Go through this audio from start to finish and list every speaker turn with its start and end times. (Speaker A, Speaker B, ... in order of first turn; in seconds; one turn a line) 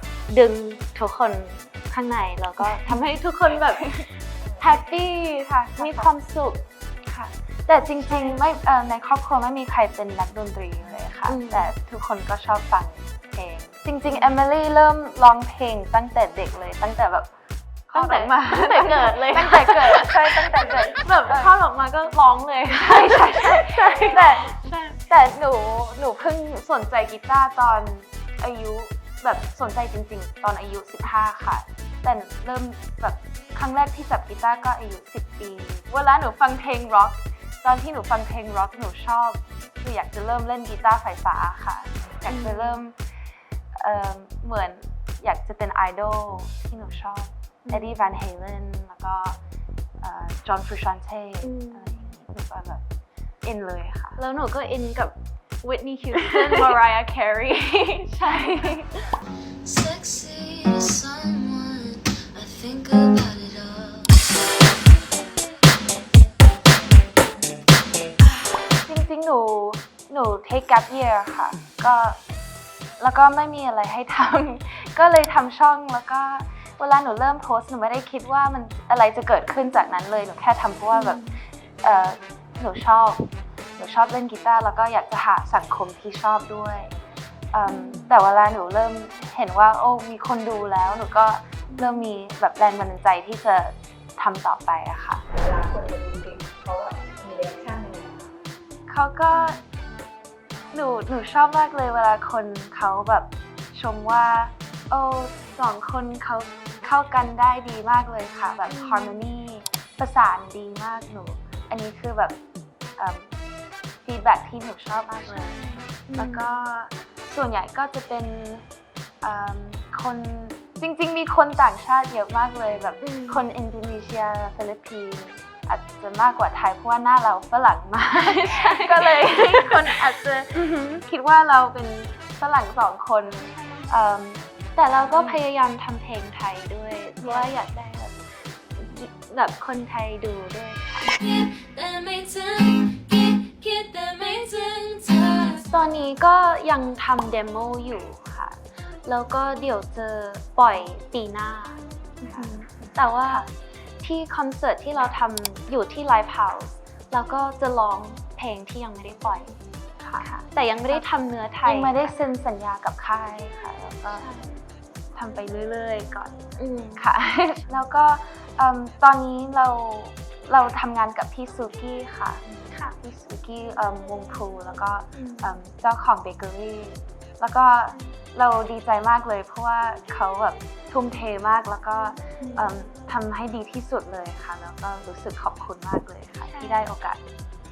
Speaker A: 0.3-3.9
Speaker B: 2.6-2.9
Speaker B: 3.7-4.1
Speaker B: 4.6-6.1
Speaker A: 4.6-6.6
Speaker B: 7.1-17.3
Speaker A: 8.0-8.4
Speaker A: 11.2-11.7
Speaker B: 17.9-21.5
Speaker A: 17.9-25.0
Speaker B: 22.8-24.6
Speaker B: 25.1-42.9
Speaker A: 42.3-42.8
Speaker B: 43.8-49.4
Speaker A: 47.6-48.1
Speaker B: 50.0-52.8
Speaker A: 51.4-52.1
Speaker B: 53.4-54.2
Speaker A: 54.2-58.8
Speaker B: 58.2-58.8
Speaker C: 59.6-64.2
Speaker B: 68.8-72.2
Speaker B: 73.0-81.2
Speaker A: 80.9-81.3
Speaker B: 81.8-86.9
Speaker B: 87.5-95.2
Speaker A: 87.7-88.1
Speaker A: 91.7-92.1
Speaker D: 95.3-98.3
Speaker B: 98.9-99.6
Speaker A: 99.3-99.6
Speaker B: 100.7-112.3
Speaker A: 108.7-109.2
Speaker B: 113.0-113.3
Speaker B: 114.0-115.6
Speaker A: 115.3-116.5
Speaker B: 116.1-118.7
Speaker B: 119.2-135.4
Speaker A: 123.0-123.5
Speaker A: 128.1-130.0
Speaker A: 130.5-131.0
Speaker A: 133.5-133.9
Speaker A: 134.8-138.1
Speaker B: 137.2-137.5
Speaker A: 138.8-141.1
Speaker C: 141.2-145.7
Speaker A: 145.6-153.5
Speaker B: 152.2-152.6
Speaker B: 153.2-153.5
Speaker A: 154.0-159.6
Speaker A: 160.2-162.1
Speaker B: 161.6-164.3
Speaker A: 164.1-164.6
Speaker B: 165.2-166.4
Speaker A: 166.6-167.1
Speaker B: 167.0-172.4
Speaker B: 173.0-187.2
Speaker A: 175.2-175.6
Speaker A: 182.4-182.7
Speaker A: 186.4-186.9